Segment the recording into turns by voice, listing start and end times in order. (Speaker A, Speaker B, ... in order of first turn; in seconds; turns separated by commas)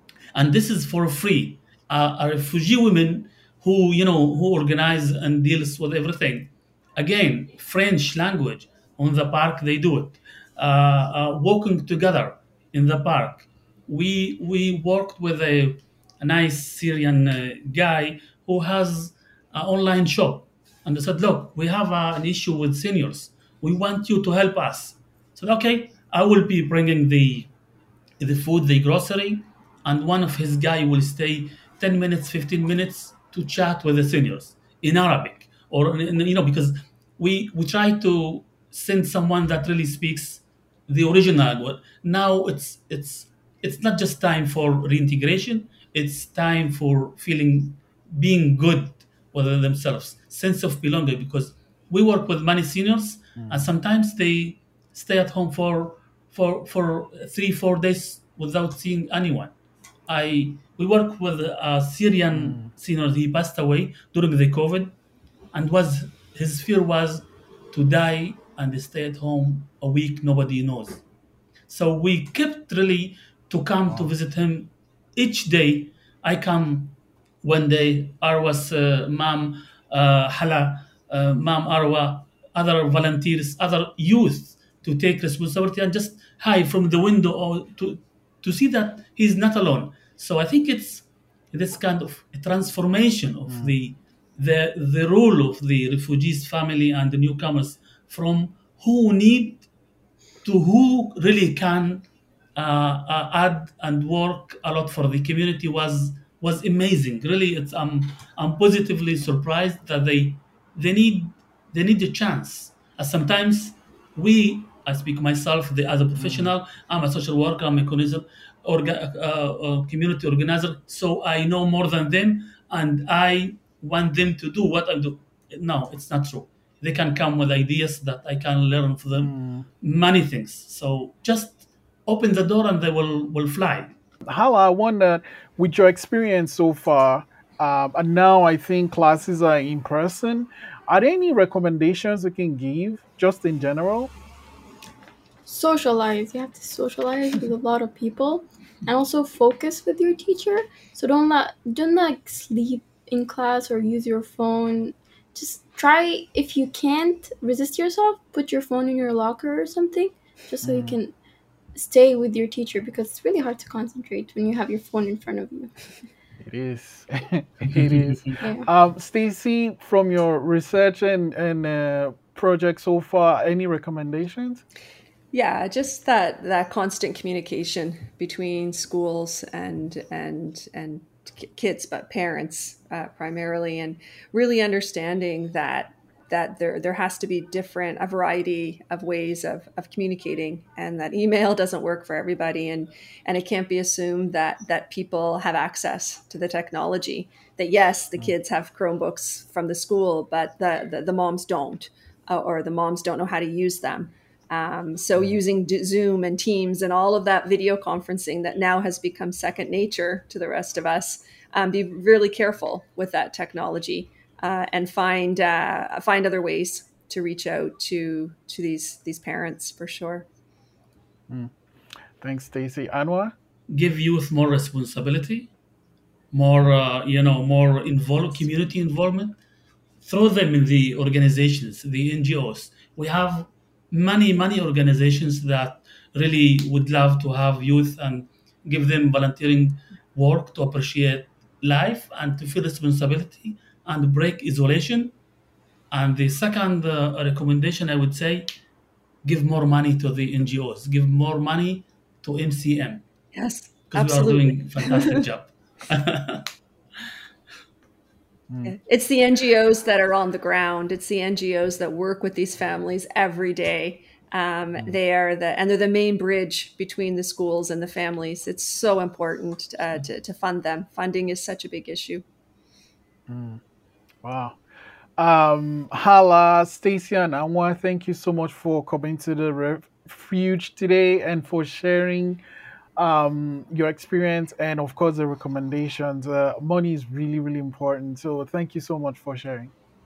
Speaker A: 0.3-27.5, Speaker A: 28.2-59.5, Speaker B: 53.4-53.7, Speaker A: 60.1-65.0, Speaker B: 62.3-62.7, Speaker A: 65.5-71.0, Speaker A: 71.7-99.7, Speaker B: 93.5-93.8, Speaker A: 100.4-102.0, Speaker A: 102.6-133.9, Speaker B: 116.2-116.5, Speaker B: 129.2-129.7, Speaker B: 134.3-144.1, Speaker C: 145.5-161.1, Speaker B: 160.6-161.0, Speaker C: 161.8-165.7, Speaker B: 166.4-174.6, Speaker A: 167.8-168.3, Speaker C: 168.4-168.7, Speaker D: 175.3-220.3, Speaker B: 221.3-221.6, Speaker B: 222.2-223.3, Speaker A: 223.7-225.5, Speaker A: 226.3-229.4, Speaker A: 230.0-245.1, Speaker A: 245.9-248.5, Speaker A: 249.2-253.0, Speaker D: 253.3-255.2, Speaker A: 253.9-256.5, Speaker B: 258.5-258.8, Speaker D: 258.6-272.2, Speaker B: 273.3-273.6, Speaker B: 274.2-274.6, Speaker B: 275.2-282.4, Speaker B: 283.0-289.7